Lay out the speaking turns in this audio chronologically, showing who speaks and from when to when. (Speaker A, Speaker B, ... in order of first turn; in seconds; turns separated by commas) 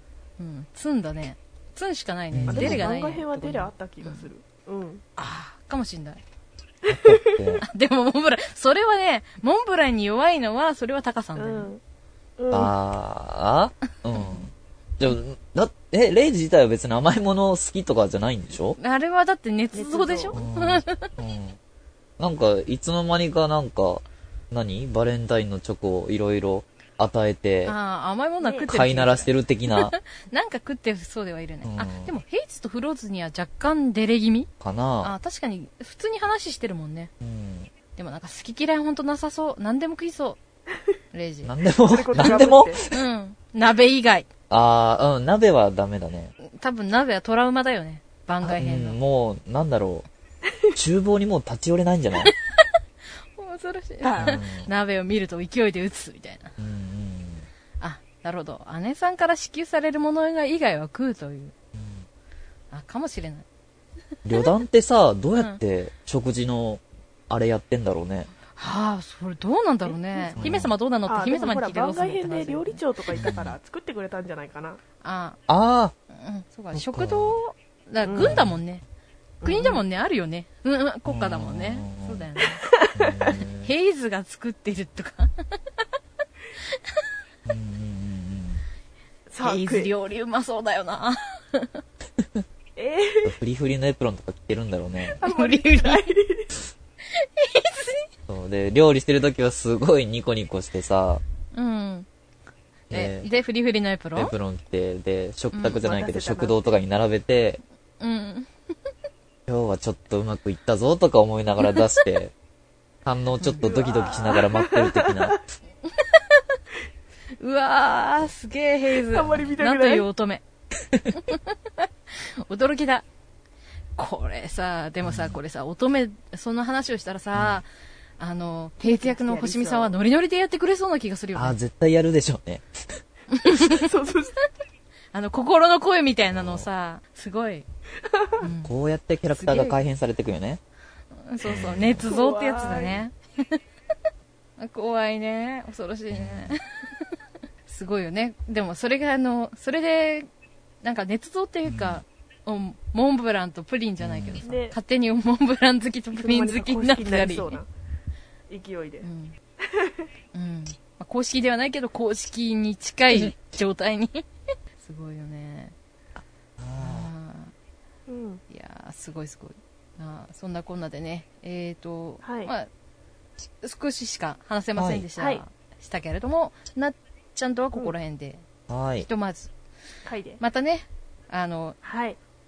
Speaker A: 0.4-4.3, Speaker B: 2.3-2.8, Speaker C: 2.5-5.0, Speaker A: 5.2-6.2, Speaker C: 6.8-7.4, Speaker B: 6.9-7.6, Speaker A: 7.6-11.7, Speaker C: 11.3-11.8, Speaker C: 12.4-12.7, Speaker B: 12.5-18.8, Speaker A: 14.1-14.5, Speaker A: 18.8-21.1, Speaker C: 19.7-20.4, Speaker B: 20.3-21.6, Speaker B: 22.2-27.8, Speaker A: 27.6-34.5, Speaker C: 28.4-28.7, Speaker B: 28.7-29.9, Speaker B: 31.6-32.1, Speaker B: 34.6-35.1, Speaker A: 35.0-37.1, Speaker B: 37.2-37.7, Speaker A: 38.0-40.4, Speaker A: 41.1-41.5, Speaker B: 41.4-43.0, Speaker C: 41.9-42.8, Speaker A: 42.2-44.3, Speaker B: 44.5-46.3, Speaker A: 46.4-49.0, Speaker B: 48.4-50.0, Speaker B: 50.7-52.3, Speaker A: 52.2-52.6, Speaker A: 53.4-56.5, Speaker C: 54.0-54.4, Speaker B: 54.2-54.7, Speaker B: 56.6-57.5, Speaker A: 57.8-61.5, Speaker B: 61.7-62.0, Speaker A: 62.7-63.4, Speaker B: 64.2-68.3, Speaker A: 65.3-65.6, Speaker A: 68.5-72.8, Speaker C: 69.8-74.8, Speaker B: 70.4-70.7, Speaker B: 73.1-73.6, Speaker A: 75.0-75.4, Speaker B: 75.5-75.9, Speaker A: 76.1-78.8, Speaker B: 76.7-77.4, Speaker C: 78.0-78.5, Speaker B: 78.1-78.6, Speaker C: 79.4-79.8, Speaker A: 79.4-82.6, Speaker B: 81.0-82.3, Speaker C: 82.6-83.4, Speaker B: 82.9-83.7, Speaker A: 83.6-85.3, Speaker B: 87.5-88.6, Speaker C: 89.3-89.9, Speaker A: 89.4-91.8, Speaker B: 92.2-92.4, Speaker C: 92.8-93.3, Speaker B: 93.2-95.2, Speaker C: 95.2-96.5, Speaker A: 95.2-96.1, Speaker A: 97.2-98.0, Speaker B: 98.3-101.2, Speaker A: 101.5-102.1, Speaker B: 102.9-103.3, Speaker A: 102.9-104.3, Speaker B: 104.1-107.6, Speaker A: 105.5-105.8, Speaker C: 105.7-106.5, Speaker A: 108.0-108.5, Speaker B: 109.5-112.3, Speaker B: 113.0-115.4, Speaker C: 113.6-115.4, Speaker A: 115.9-116.4, Speaker A: 117.4-120.4, Speaker C: 119.1-120.1, Speaker A: 121.1-123.0, Speaker A: 124.0-127.7, Speaker B: 125.0-125.4, Speaker B: 127.3-127.6, Speaker A: 128.2-131.6, Speaker C: 128.8-130.0, Speaker B: 131.3-132.9, Speaker A: 133.3-133.8, Speaker C: 133.5-134.4, Speaker A: 135.1-137.7, Speaker B: 136.3-136.7, Speaker A: 138.4-138.7, Speaker B: 138.6-140.6, Speaker A: 139.3-139.8, Speaker A: 141.2-143.1, Speaker B: 141.4-142.0, Speaker C: 142.0-143.0, Speaker A: 144.6-146.6, Speaker B: 146.1-146.6, Speaker A: 147.7-150.3, Speaker A: 150.8-157.6, Speaker B: 151.7-152.0, Speaker B: 154.0-154.4, Speaker C: 154.4-154.8, Speaker C: 156.1-157.7, Speaker C: 158.5-159.1, Speaker A: 159.0-159.3, Speaker C: 159.7-160.1, Speaker A: 160.3-164.2, Speaker A: 164.8-165.7, Speaker B: 166.2-167.1, Speaker A: 166.8-167.5, Speaker C: 168.1-168.4, Speaker A: 168.5-172.7, Speaker C: 172.2-172.5, Speaker A: 173.6-178.4, Speaker B: 174.7-175.1, Speaker C: 175.2-175.4, Speaker B: 178.7-179.1, Speaker A: 179.0-179.5, Speaker C: 180.1-180.4, Speaker A: 180.4-181.8, Speaker C: 181.8-182.2